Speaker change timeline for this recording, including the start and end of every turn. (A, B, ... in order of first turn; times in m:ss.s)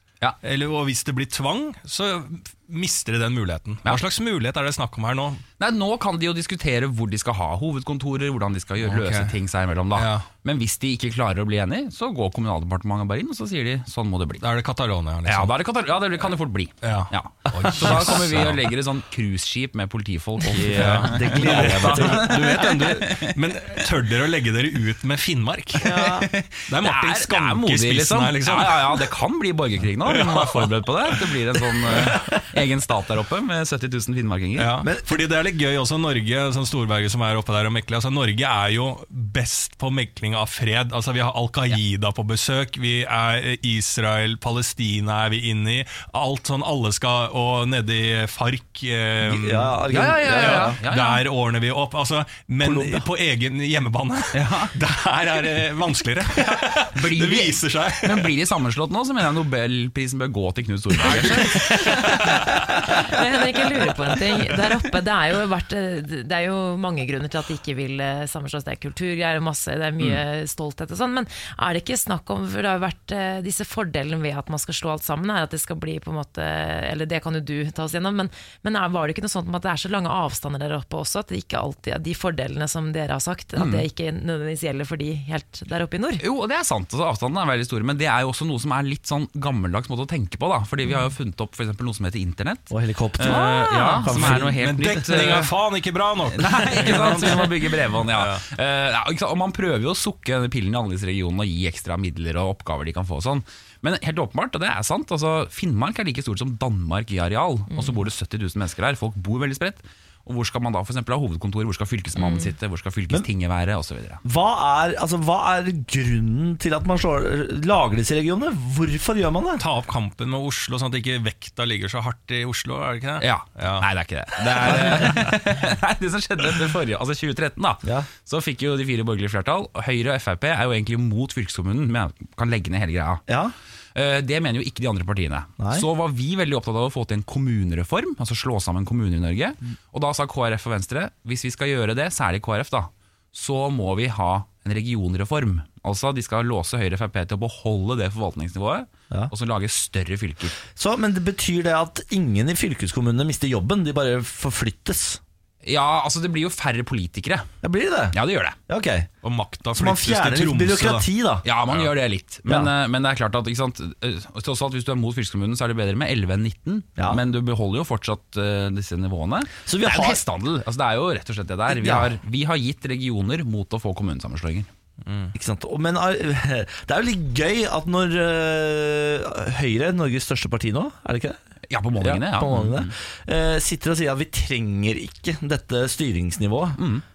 0:00.4-0:05.4 A
0:05.6-0:14.4 B
0:08.8-0:09.3 A
0:09.9-0:10.3 A
0:14.4-0:15.6 A
0:15.3-0:23.4 B
0:16.8-0:18.7 A
0:20.6-0:22.8 C
0:20.6-0:26.1 A
0:25.8-0:34.7 B
0:25.8-0:26.3 D
0:26.7-0:29.1 A
0:30.1-0:32.2 A
0:34.6-0:58.3 A
0:34.8-0:35.2 C
0:49.2-0:50.8 C
0:49.9-0:51.2 B
0:52.6-0:53.1 C
0:54.3-0:54.7 B
0:56.5-1:02.5 B
1:01.2-1:02.1 D
1:01.3-1:03.0 A
1:02.8-1:26.2 D
1:03.9-1:04.4 A
1:23.6-1:23.9 B
1:26.2-1:35.5 B
1:30.8-1:31.1 D
1:32.7-1:34.6 C
1:33.2-1:34.1 D
1:34.1-1:38.4 A
1:36.3-1:54.2 B
1:47.7-1:48.0 D
1:52.2-1:52.6 D
1:54.2-1:59.6 C
1:59.6-2:03.9 A
2:03.2-2:13.2 B
2:04.6-2:05.3 A
2:07.8-2:08.1 C
2:13.3-2:13.5 C
2:13.9-2:30.6 B
2:15.6-2:15.9 C
2:30.7-2:35.2 C
2:35.6-2:37.5 B
2:37.6-2:39.1 C
2:38.1-2:38.6 B
2:39.2-2:41.1 A
2:39.7-2:41.4 C
2:41.4-2:54.7 B
2:42.4-2:42.7 C
2:49.6-2:50.2 C
2:51.7-2:52.1 C
2:55.1-2:55.3 A
2:55.3-3:01.4 C
3:01.7-3:02.9 B
3:02.0-3:06.8 C
3:06.8-3:07.0 B